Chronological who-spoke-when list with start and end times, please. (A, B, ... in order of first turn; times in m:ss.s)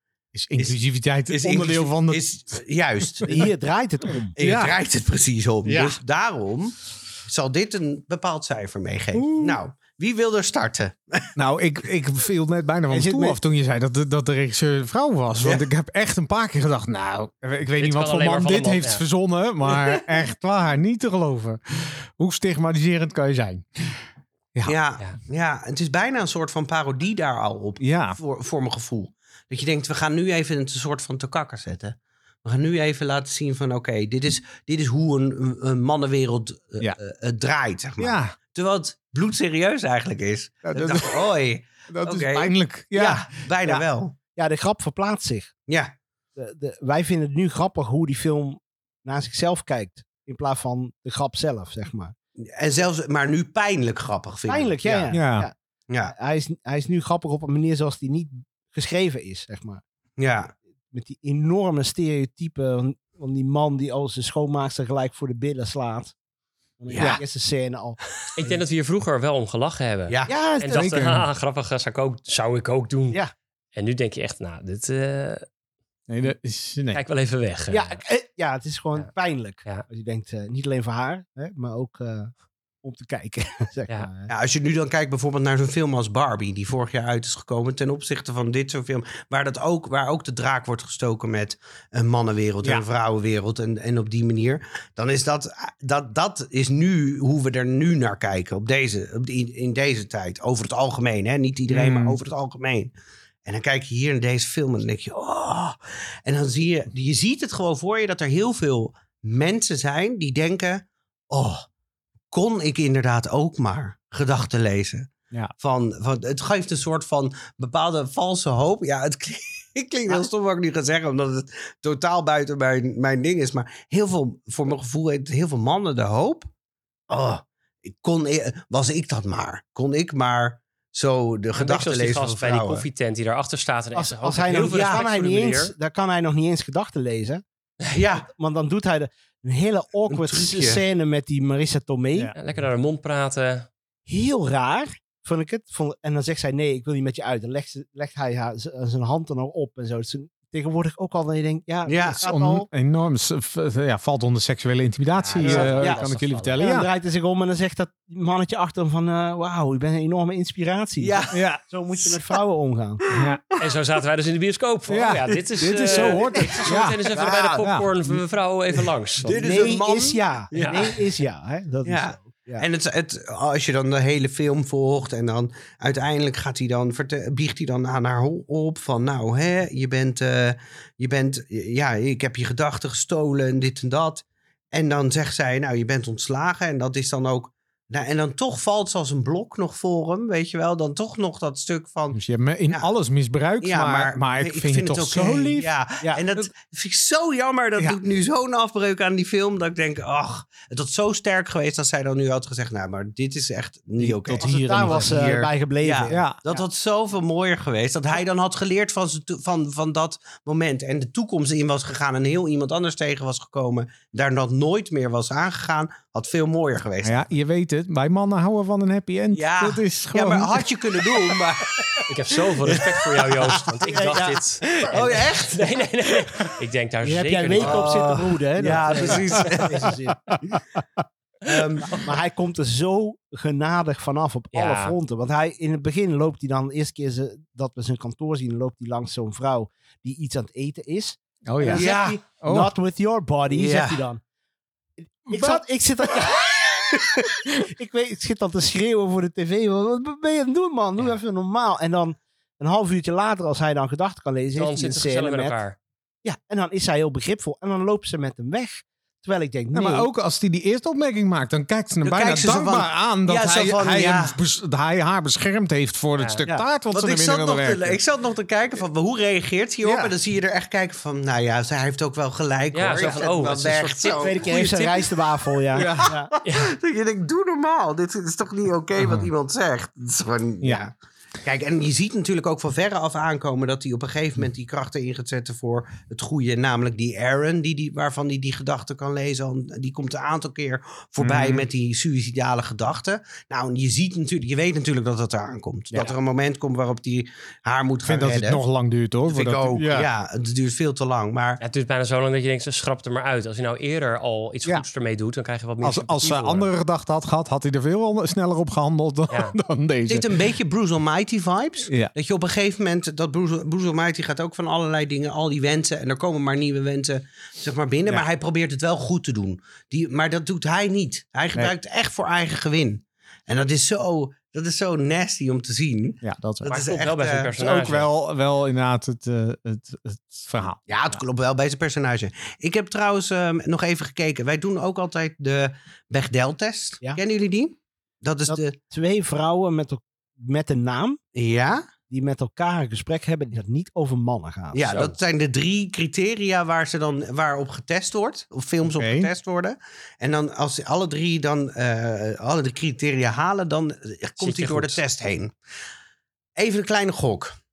0:00.3-0:02.2 A
0:01.3-0:03.5 B
0:03.2-0:03.5 A
0:03.3-0:04.3 C
0:04.4-0:11.3 B
0:04.4-0:04.8 A
0:05.6-0:06.0 A
0:09.1-0:09.6 A
0:11.4-0:24.0 A
0:12.9-0:13.4 C
0:15.4-0:15.7 B
0:17.8-0:19.0 D
0:24.7-0:44.2 B
0:27.8-0:28.2 A
0:38.0-0:38.4 A
0:40.6-0:41.3 A
0:41.9-0:43.3 A
0:44.4-0:45.5 C
0:46.4-0:52.1 C
0:52.4-0:55.2 B
0:54.5-0:55.5 C
0:55.1-0:55.5 A
0:55.9-0:56.1 B
0:56.1-0:59.8 C
1:00.2-1:00.5 B
1:00.9-1:06.1 C
1:06.8-1:08.0 C
1:06.9-1:07.2 B
1:08.4-1:13.2 D
1:10.3-1:10.8 C
1:10.7-1:11.3 A
1:13.8-1:15.5 D
1:16.1-1:17.0 A
1:16.9-1:18.0 D
1:17.7-1:22.3 C
1:22.8-1:24.3 C
1:24.3-1:42.9 B
1:41.7-1:42.2 A
1:43.4-1:51.7 B
1:52.3-2:06.5 B
2:07.1-2:12.9 B
2:11.6-2:15.7 D
2:14.0-2:17.4 C
2:14.5-2:15.0 B
2:17.9-2:18.3 B
2:18.2-2:22.3 C
2:20.1-2:20.8 B
2:22.4-2:23.7 D
2:24.1-2:32.7 C
2:31.9-2:32.2 B
2:32.1-2:36.9 A
2:35.2-2:36.7 D
2:35.4-2:36.0 C
2:35.4-2:35.8 B
2:36.6-2:43.0 C
2:41.0-2:41.4 B
2:41.3-2:41.6 A
2:42.0-2:42.4 B
2:43.1-2:43.6 B
2:43.1-2:43.4 A
2:43.6-2:49.5 D
2:44.9-2:47.9 A
2:45.9-2:46.2 B
2:47.1-2:47.7 B
2:49.2-2:51.1 B
2:49.3-2:52.6 C
2:50.5-2:50.9 D
2:51.8-3:12.9 B
3:12.1-3:15.7 A
3:13.6-3:37.2 B
3:24.0-3:26.6 C
3:24.3-3:25.3 A
3:26.1-3:26.4 A
3:37.0-3:41.4 A
3:39.3-3:42.1 B
3:42.1-3:48.0 D
3:42.7-3:45.7 B
3:43.9-3:44.4 C
3:47.0-3:50.6 C
3:47.6-3:50.0 B
3:48.6-3:49.6 D
3:51.4-3:52.1 B
3:52.0-4:04.2 C
3:54.5-3:55.0 D
4:01.5-4:01.9 A
4:01.7-4:02.2 B
4:02.4-4:02.7 A
4:03.5-4:04.0 B
4:05.0-4:06.6 C
4:05.3-4:05.6 A
4:07.5-4:15.6 C
4:14.6-4:15.8 D
4:16.2-4:20.1 C
4:19.7-4:28.0 A
4:22.0-4:24.4 B
4:26.2-4:26.4 D
4:26.9-4:34.6 B
4:29.8-4:30.1 A
4:32.7-4:35.1 D
4:34.2-4:36.3 C
4:35.8-4:36.1 A
4:36.4-4:36.7 D
4:36.5-4:58.6 B
4:39.0-4:39.3 A
4:51.2-4:51.7 A
4:58.0-5:00.1 A
4:59.3-5:01.6 B
5:01.6-5:06.7 D
5:05.8-5:10.3 A
5:09.3-5:09.5 D
5:10.1-5:27.5 B
5:11.9-5:12.1 A
5:26.2-5:26.7 A
5:26.7-5:28.1 D
5:27.6-5:31.2 A
5:30.9-5:38.8 B
5:38.5-5:41.2 C
5:41.4-5:41.8 B
5:42.1-5:44.9 C
5:44.7-5:55.5 B
5:44.9-5:45.2 D
5:48.8-5:49.3 A
5:54.4-5:55.0 D
5:56.6-5:57.5 B